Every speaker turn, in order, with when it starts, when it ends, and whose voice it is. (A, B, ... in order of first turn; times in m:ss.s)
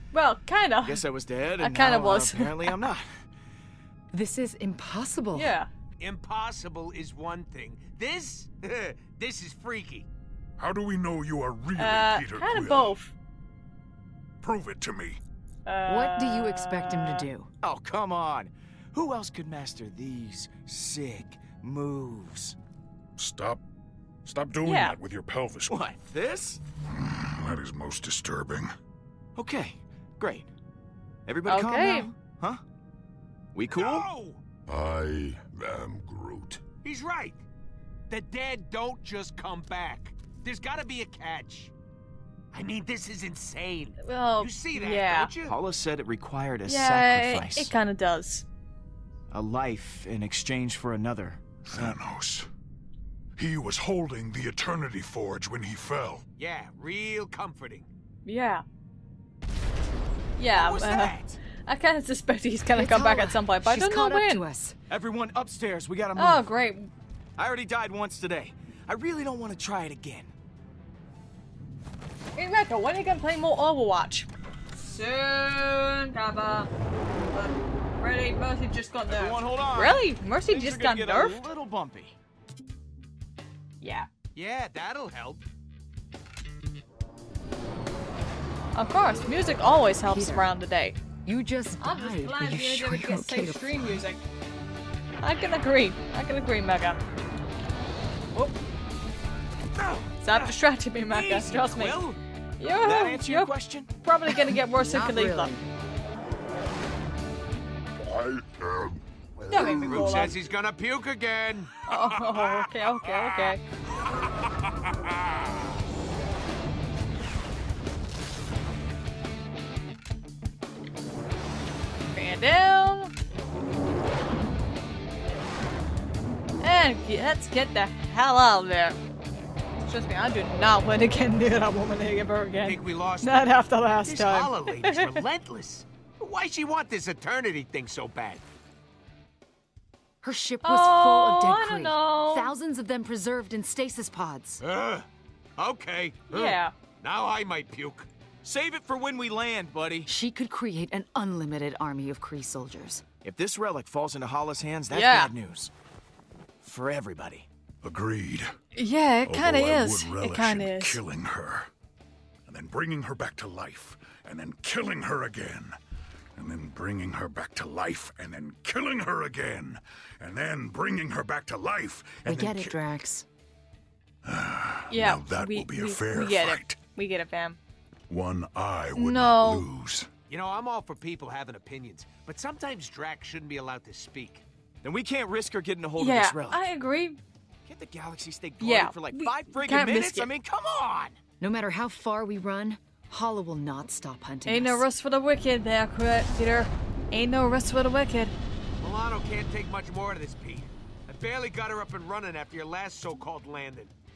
0:00.1-0:01.1 A
0:00.8-0:03.3 B
0:01.6-0:02.8 A
0:04.1-0:05.6 C
0:05.3-0:05.7 A
0:06.0-0:10.1 D
0:10.6-0:13.0 E
0:11.8-0:13.1 A
0:14.4-0:15.2 E
0:15.7-0:17.2 A
0:15.9-0:17.5 C
0:17.6-0:22.6 B
0:23.2-0:23.6 E
0:24.2-0:25.9 E
0:24.6-0:25.0 A
0:25.7-0:26.6 B
0:26.9-0:28.7 E
0:29.4-0:30.5 B
0:31.3-0:32.6 B
0:31.5-0:32.1 A
0:33.5-0:34.1 B
0:33.7-0:34.4 D
0:34.7-0:36.6 E
0:36.8-0:37.4 D
0:38.1-0:41.7 D
0:42.5-0:45.6 D
0:44.0-0:45.3 A
0:45.4-0:47.7 B
0:46.7-0:48.5 A
0:49.3-0:52.0 B
0:51.6-0:52.5 E
0:53.4-0:56.2 E
0:56.4-0:57.9 D
0:58.2-0:58.6 A
1:00.4-1:04.4 A
1:00.5-1:01.4 B
1:02.7-1:04.8 C
1:04.9-1:06.5 B
1:06.2-1:06.9 A
1:07.4-1:10.3 B
1:12.4-1:14.3 A
1:14.8-1:16.7 A
1:17.3-1:21.4 A
1:19.1-1:22.2 B
1:23.8-1:24.1 A
1:24.4-1:25.4 D
1:28.8-1:31.0 A
1:30.0-1:30.5 C
1:31.2-1:34.0 C
1:31.8-1:34.2 A
1:35.2-1:37.0 A
1:39.8-1:42.2 B
1:40.2-1:42.0 A
1:42.6-1:45.5 A
1:42.8-1:43.9 B
1:44.8-1:45.8 C
1:48.0-1:50.1 E
1:49.5-1:50.3 A
1:49.6-1:50.2 B
1:49.9-1:52.5 D
1:51.9-1:53.6 A
2:02.1-2:03.1 A
2:06.6-2:09.0 A
2:09.8-2:15.2 A
2:12.6-2:18.4 D
2:20.2-2:24.6 C
2:20.6-2:22.5 A
2:24.6-2:25.1 D
2:25.6-2:28.1 D
2:26.3-2:26.7 A
2:28.4-2:30.1 B
2:30.1-2:33.0 C
2:33.2-2:35.7 B
2:34.9-2:35.3 A
2:36.6-2:37.5 B
2:37.8-2:38.5 E
2:38.7-2:41.0 A
2:39.2-2:41.7 E
2:42.5-2:45.7 E
2:46.4-2:52.8 E
2:52.3-2:53.3 C
2:54.2-2:56.8 E
2:54.9-2:57.6 A
2:58.1-3:00.1 E
2:58.9-2:59.7 A
3:00.3-3:04.4 D
3:04.8-3:06.7 B
3:06.0-3:07.2 A
3:07.6-3:11.2 B
3:08.6-3:10.3 A
3:11.4-3:14.9 C
3:14.5-3:18.3 A
3:18.8-3:23.9 D